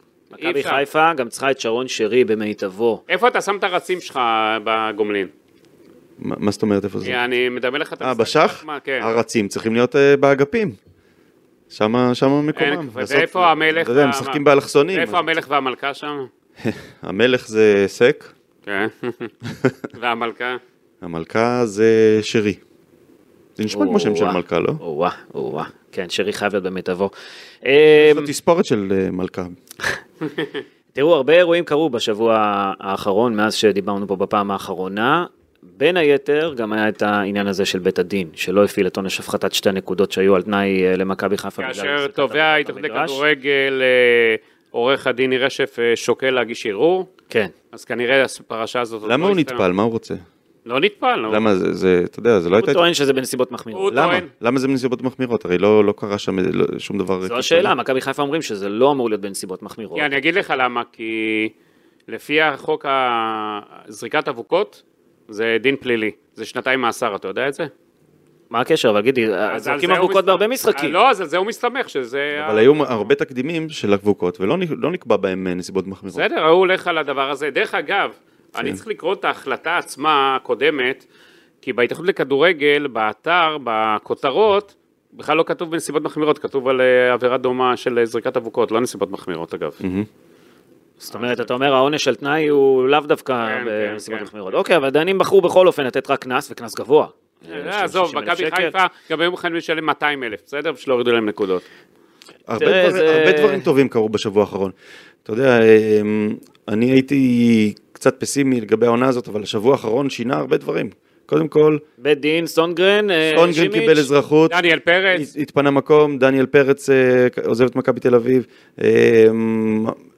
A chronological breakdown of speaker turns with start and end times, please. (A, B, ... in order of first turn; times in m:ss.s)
0:00.3-0:03.0 A
0:00.4-0:00.8 B
0:03.1-0:05.3 B
0:06.2-0:07.2 C
0:07.0-0:09.1 B
0:08.0-0:10.8 C
0:11.7-0:15.3 C
0:12.5-0:16.3 B
0:16.6-0:18.3 C
0:18.6-0:19.3 B
0:19.4-0:19.7 C
0:19.9-0:20.6 B
0:21.0-0:22.6 C
0:23.6-0:24.8 C
0:23.7-0:27.1 A
0:27.6-0:28.3 A
0:28.0-0:29.6 C
0:30.9-0:43.2 A
0:41.6-0:47.1 B
0:47.7-0:49.6 B
0:49.0-0:50.2 C
0:50.6-0:51.4 B
0:51.3-0:52.8 C
0:52.5-0:54.0 A
0:53.7-0:54.3 B
0:53.9-0:57.7 C
0:57.2-1:00.1 A
0:59.9-1:01.5 B
1:02.1-1:07.7 B
1:08.5-1:11.0 A
1:09.5-1:12.7 B
1:12.3-1:16.2 C
1:16.1-1:21.0 B
1:21.6-1:29.8 B
1:29.8-1:30.1 C
1:31.0-1:38.7 A
1:31.1-1:31.4 B
1:33.4-1:34.3 B
1:37.5-1:41.6 B
1:42.5-1:44.7 C
1:42.6-1:43.7 A
1:45.2-1:51.8 C
1:52.0-1:54.1 A
1:53.3-1:54.6 C
1:54.5-1:55.3 B
1:55.1-2:00.0 C